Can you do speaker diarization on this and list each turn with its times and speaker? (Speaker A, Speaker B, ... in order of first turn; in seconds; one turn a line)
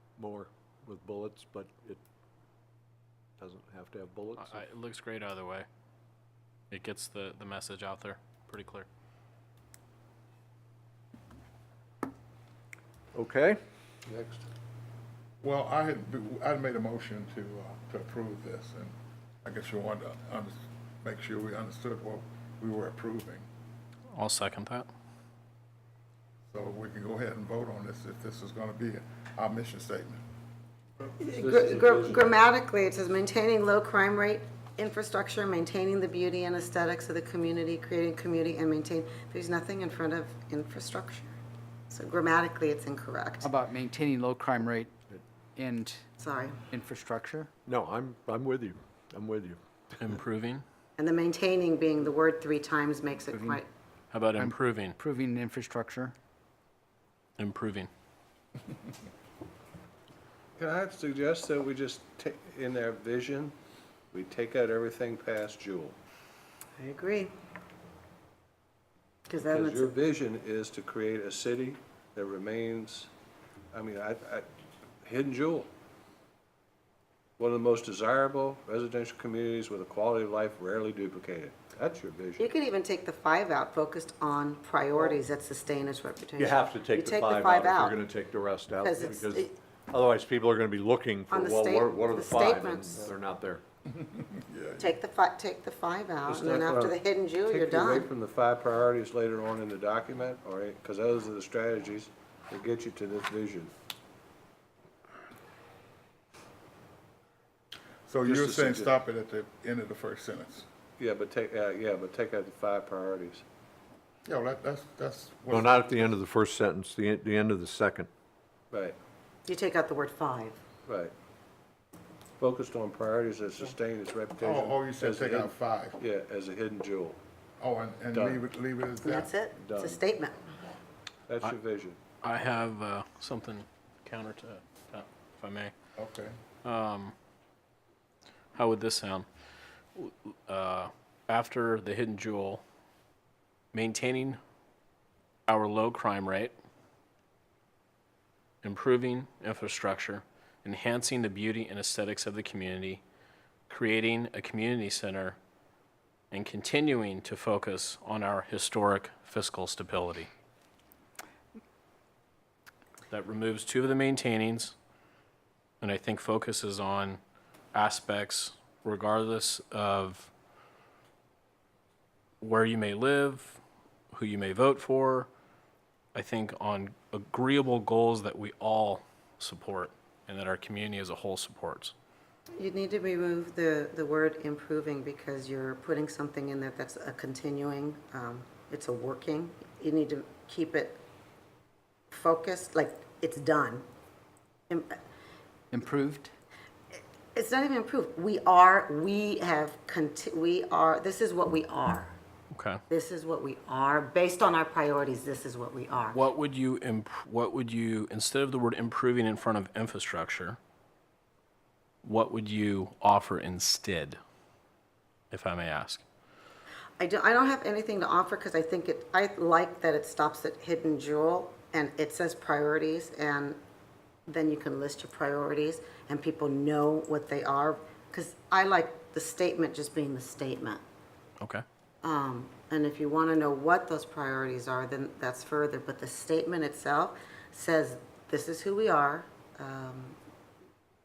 Speaker A: 0.2-2.0
Speaker A: 3.4-4.6
Speaker B: 4.4-5.7
Speaker B: 6.7-8.8
Speaker A: 13.1-13.6
Speaker C: 14.1-14.4
Speaker D: 15.4-18.9
Speaker D: 19.4-23.4
Speaker B: 24.1-24.9
Speaker D: 26.5-30.2
Speaker E: 31.2-41.3
Speaker C: 31.2-32.3
Speaker E: 41.9-43.5
Speaker F: 43.4-45.0
Speaker F: 45.5-46.0
Speaker E: 46.2-46.6
Speaker F: 46.7-47.5
Speaker A: 47.6-49.6
Speaker B: 50.0-50.6
Speaker E: 51.0-53.7
Speaker F: 53.3-53.6
Speaker B: 54.1-55.0
Speaker F: 54.4-56.1
Speaker B: 57.4-57.9
Speaker C: 60.6-63.5
Speaker C: 64.1-66.0
Speaker E: 66.8-67.3
Speaker E: 69.3-69.9
Speaker C: 69.4-73.1
Speaker C: 73.7-74.5
Speaker C: 75.0-75.7
Speaker C: 77.4-82.5
Speaker E: 82.4-88.0
Speaker A: 86.4-93.6
Speaker E: 88.8-89.5
Speaker E: 91.3-93.1
Speaker D: 93.9-94.9
Speaker E: 94.8-98.1
Speaker C: 96.2-103.7
Speaker D: 108.1-110.7
Speaker C: 108.2-108.9
Speaker C: 111.0-113.4
Speaker D: 114.2-116.1
Speaker A: 115.5-118.1
Speaker C: 118.7-119.0
Speaker E: 119.5-120.6
Speaker C: 120.8-121.1
Speaker C: 122.4-127.2
Speaker D: 124.4-126.0
Speaker D: 127.6-129.3
Speaker C: 128.1-128.4
Speaker E: 129.0-130.4
Speaker C: 129.6-130.0
Speaker C: 131.3-132.0
Speaker B: 132.2-135.7
Speaker D: 135.9-136.4
Speaker B: 136.6-137.1
Speaker B: 138.5-139.3
Speaker B: 139.9-142.6
Speaker B: 143.7-144.4
Speaker B: 145.5-146.5
Speaker B: 148.6-153.0
Speaker B: 153.7-155.4
Speaker B: 156.3-160.3
Speaker B: 163.1-164.7
Speaker B: 165.8-167.2
Speaker B: 167.7-170.3
Speaker B: 172.4-173.6
Speaker B: 174.1-175.3
Speaker B: 176.1-181.9
Speaker E: 182.6-191.0
Speaker E: 192.1-193.8
Speaker F: 195.7-196.3
Speaker E: 196.9-202.1
Speaker B: 202.5-202.8
Speaker E: 202.9-206.2
Speaker B: 206.1-210.6
Speaker B: 212.0-214.2
Speaker B: 215.3-216.0
Speaker E: 217.0-223.6
Speaker E: 224.3-230.8
Speaker E: 232.0-240.2